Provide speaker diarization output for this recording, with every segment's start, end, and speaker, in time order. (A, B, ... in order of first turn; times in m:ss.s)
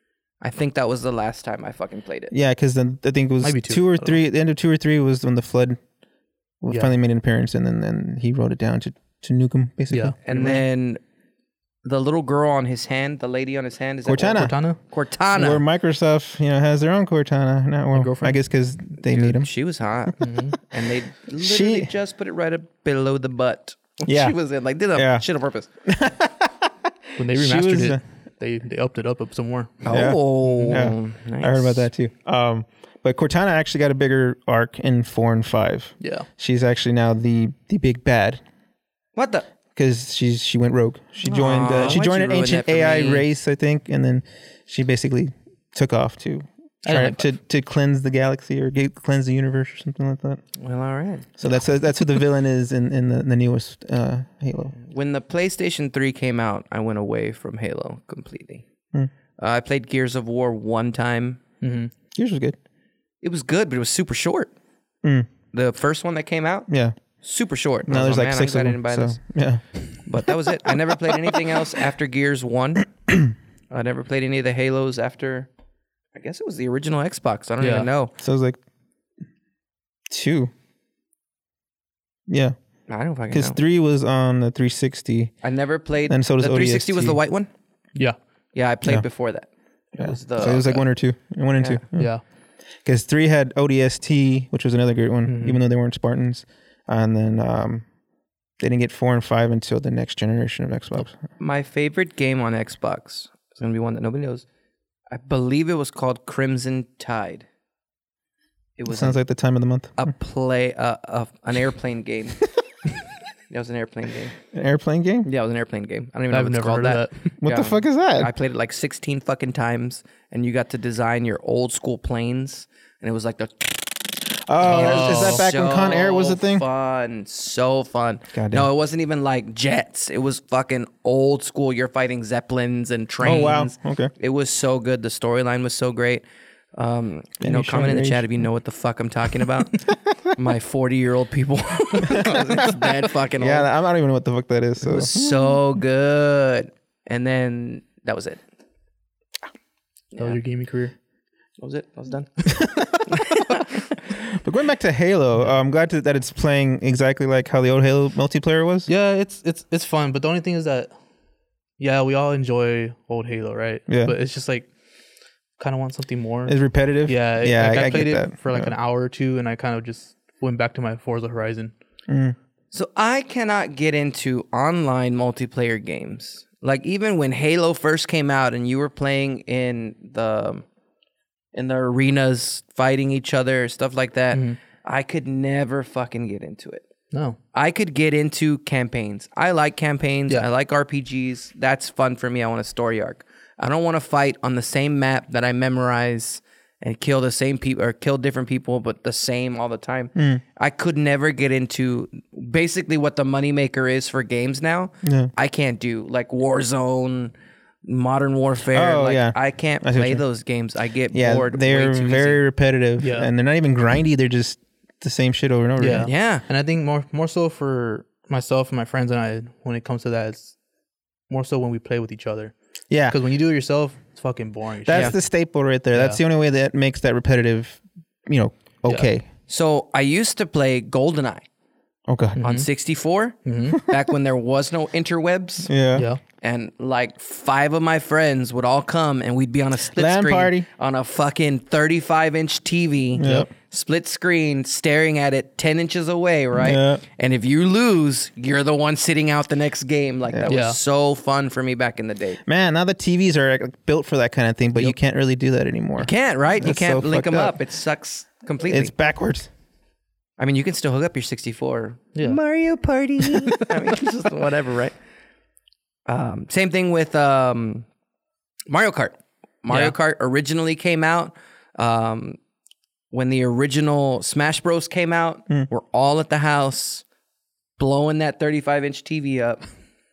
0:00.4-0:02.3 A
0:02.3-0:05.8 B
0:03.4-0:04.2 C
0:06.6-0:10.6 B
0:09.9-0:10.5 C
0:10.2-0:11.0 A
0:11.8-0:15.6 A
0:14.0-0:14.6 B
0:14.3-0:14.8 C
0:15.3-0:19.5 B
0:17.9-0:18.4 C
0:19.0-0:25.7 A
0:20.2-0:20.6 C
0:21.4-0:21.9 B
0:24.0-0:24.3 B
0:24.9-0:25.2 B
0:25.8-0:26.7 B
0:27.2-0:29.8 C
0:27.2-0:28.0 B
0:29.8-0:31.9 A
0:29.9-0:38.4 B
0:30.5-0:30.8 C
0:36.0-0:36.3 C
0:39.2-0:39.5 A
0:39.8-0:50.4 B
0:41.3-0:42.0 C
0:41.3-0:43.2 A
0:46.8-0:47.3 C
0:50.6-0:51.3 A
0:51.4-0:54.7 B
0:54.8-0:58.6 A
0:59.4-1:01.4 A
1:01.6-1:01.9 C
1:02.2-1:02.6 B
1:03.2-1:04.5 A
1:05.0-1:05.3 B
1:05.5-1:06.7 A
1:06.7-1:07.0 B
1:07.2-1:09.2 A
1:07.9-1:09.6 B
1:10.0-1:12.9 A
1:10.2-1:11.4 B
1:13.7-1:15.5 A
1:16.1-1:18.1 A
1:17.6-1:17.9 C
1:18.2-1:18.6 B
1:20.1-1:20.5 B
1:22.3-1:22.6 B
1:22.9-1:23.6 A
1:23.3-1:25.3 B
1:25.4-1:27.5 A
1:26.1-1:27.2 B
1:28.5-1:30.8 A
1:30.0-1:32.1 B
1:31.9-1:32.2 C
1:32.8-1:37.8 B
1:35.2-1:35.6 C
1:38.6-1:41.2 B
1:41.4-1:44.4 A
1:45.1-1:47.4 A
1:48.8-1:49.2 A
1:48.9-1:50.0 B
1:50.0-1:52.4 A
1:53.5-1:54.3 A
1:54.5-1:55.3 B
1:55.2-2:03.9 A
1:56.3-1:57.3 C
1:57.4-1:58.3 B
2:04.5-2:06.6 B
2:04.6-2:23.7 A
2:04.6-2:05.4 C
2:08.3-2:08.7 B
2:13.2-2:14.1 B
2:17.4-2:18.2 B
2:22.1-2:22.7 B
2:23.4-2:25.6 B
2:24.8-2:28.4 A
2:30.2-2:30.9 C
2:31.6-2:32.5 A
2:32.4-2:33.1 B
2:33.1-2:33.8 A
2:34.1-2:38.9 B
2:38.9-2:40.9 C
2:41.8-2:44.7 C
2:43.9-2:44.1 B
2:45.6-2:51.7 C
2:46.4-2:48.7 B
2:52.1-2:52.4 B
2:52.7-3:00.6 A
3:01.5-3:06.9 A
3:04.3-3:04.6 C
3:07.1-3:07.4 C
3:07.5-3:27.3 A
3:20.1-3:20.4 B
3:25.0-3:25.3 B
3:27.8-3:32.4 A
3:28.7-3:30.2 B
3:31.1-3:36.1 B
3:33.0-3:33.3 C
3:35.8-3:40.5 C
3:36.0-3:36.4 A
3:41.3-3:42.5 C
3:42.9-3:43.2 B
3:43.1-3:45.2 C
3:44.8-3:49.2 B
3:45.9-3:46.2 C
3:49.5-3:51.4 A
3:52.1-3:52.4 B
3:52.4-3:52.7 C
3:52.4-3:55.7 A
3:53.4-3:53.8 C
3:55.6-3:56.1 B
3:56.4-4:12.4 A
3:59.9-4:00.6 B
4:03.2-4:03.5 B
4:03.2-4:03.5 C
4:06.5-4:07.0 B
4:10.5-4:10.8 C
4:12.4-4:17.6 B
4:16.0-4:18.9 A
4:18.6-4:19.5 B
4:20.4-4:24.9 A
4:26.1-4:27.8 A
4:28.7-4:32.4 A
4:29.7-4:29.9 C
4:33.1-4:37.0 A
4:37.8-4:39.6 A